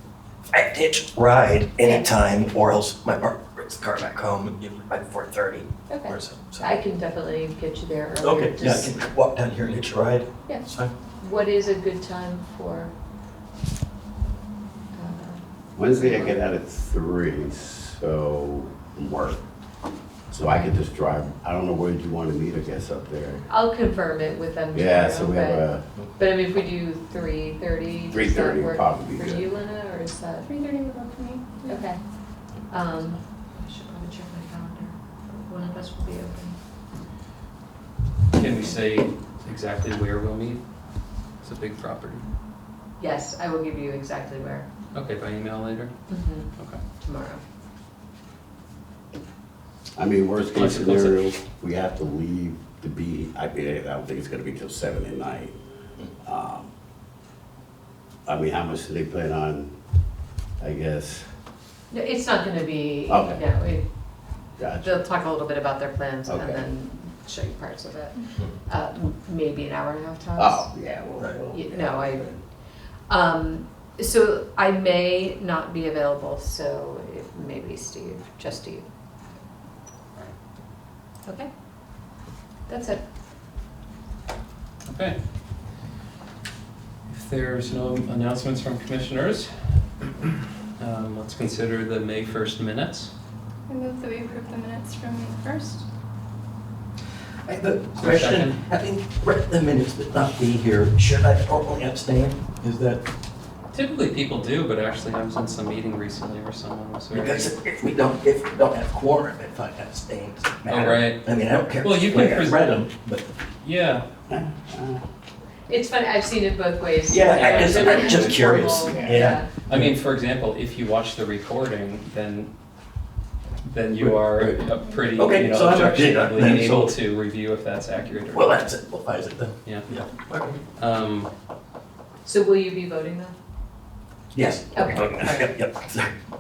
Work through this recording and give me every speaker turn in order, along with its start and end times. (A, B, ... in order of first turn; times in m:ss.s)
0:00.5-0:06.7 A
0:01.8-0:02.1 B
0:05.9-0:08.9 B
0:08.2-0:10.9 A
0:11.2-0:12.9 B
0:14.9-0:16.4 B
0:15.8-0:19.4 C
0:20.3-0:23.5 C
0:20.4-0:20.7 B
0:23.5-0:30.5 B
0:24.7-0:25.8 C
0:28.1-0:29.5 C
0:30.4-0:31.8 D
0:31.6-0:32.0 B
0:32.7-0:36.6 B
0:38.3-0:40.6 E
0:41.4-0:42.2 E
0:43.0-0:44.7 B
0:44.9-0:45.9 E
0:46.1-0:47.4 B
0:50.0-0:55.6 C
0:50.5-0:51.3 E
0:56.2-0:56.7 C
0:58.3-0:59.7 C
1:00.6-1:01.3 C
1:01.9-1:03.9 B
1:03.1-1:03.4 C
1:04.6-1:05.0 C
1:04.8-1:10.7 B
1:06.3-1:06.6 C
1:10.4-1:12.4 C
1:11.5-1:12.3 B
1:13.1-1:18.9 B
1:21.2-1:21.5 B
1:22.7-1:23.0 B
1:24.8-1:25.2 E
1:27.1-1:29.5 E
1:30.8-1:33.1 E
1:33.7-1:35.9 D
1:37.4-1:43.0 A
1:38.0-1:38.6 E
1:43.7-1:47.5 E
1:47.1-1:53.3 A
1:50.7-1:51.2 E
1:51.8-1:52.7 E
1:53.6-1:54.0 E
1:54.3-1:55.0 C
1:55.7-1:59.5 B
1:57.1-1:59.9 A
1:57.3-1:58.4 E
1:58.9-1:59.4 C
1:59.5-2:02.5 E
2:03.6-2:08.7 E
2:04.0-2:04.6 A
2:04.6-2:05.0 D
2:05.2-2:07.0 A
2:08.3-2:10.6 A
2:09.6-2:09.9 E
2:10.7-2:11.3 E
2:12.2-2:13.4 B
2:14.3-2:16.1 A
2:14.7-2:15.5 B